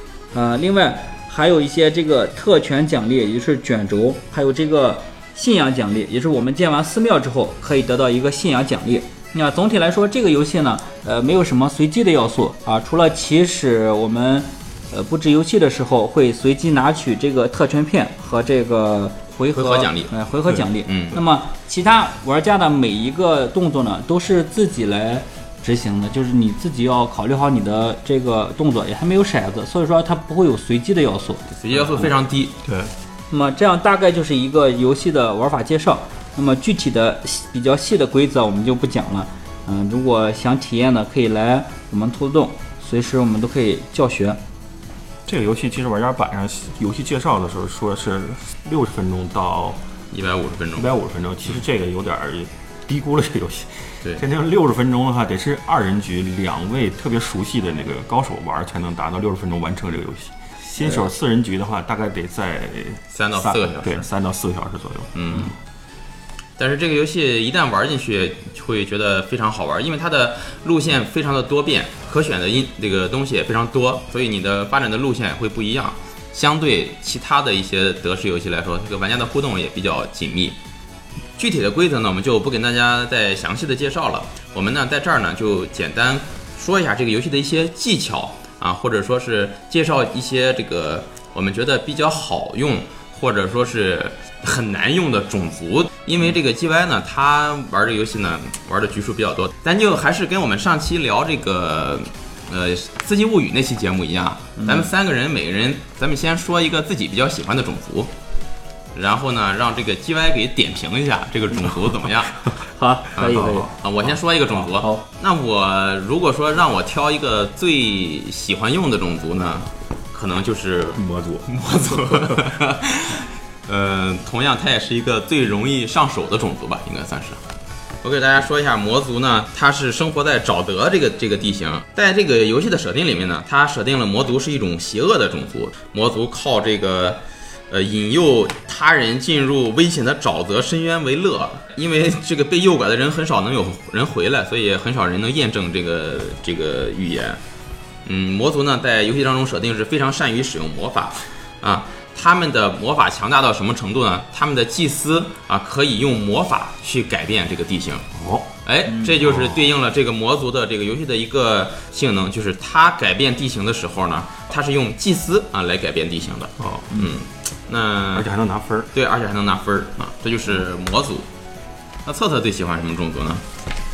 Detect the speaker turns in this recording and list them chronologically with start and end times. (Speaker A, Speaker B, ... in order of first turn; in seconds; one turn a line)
Speaker A: 0.3-31.4
Speaker B: 19.5-20.1
Speaker B: 20.9-21.2
Speaker B: 31.5-32.5
Speaker C: 32.6-32.9
Speaker A: 33.3-44.4
Speaker C: 45.3-49.8
Speaker B: 50.1-50.9
Speaker C: 50.8-65.5
Speaker B: 63.1-64.0
Speaker B: 65.2-65.5
Speaker B: 66.6-80.6
Speaker B: 81.4-108.1
Speaker A: 104.6-104.9
Speaker B: 108.9-112.5
Speaker A: 112.6-113.7
Speaker B: 113.2-127.4
Speaker C: 113.3-113.7
Speaker A: 114.8-115.0
Speaker C: 121.0-121.5
Speaker C: 122.1-122.6
Speaker B: 128.0-147.4
Speaker B: 148.1-158.1
Speaker C: 158.1-158.5
Speaker B: 158.7-168.3
Speaker A: 158.9-159.2
Speaker C: 159.2-159.6
Speaker C: 166.6-166.9
Speaker C: 168.1-168.9
Speaker B: 168.9-171.3
Speaker B: 172.1-173.4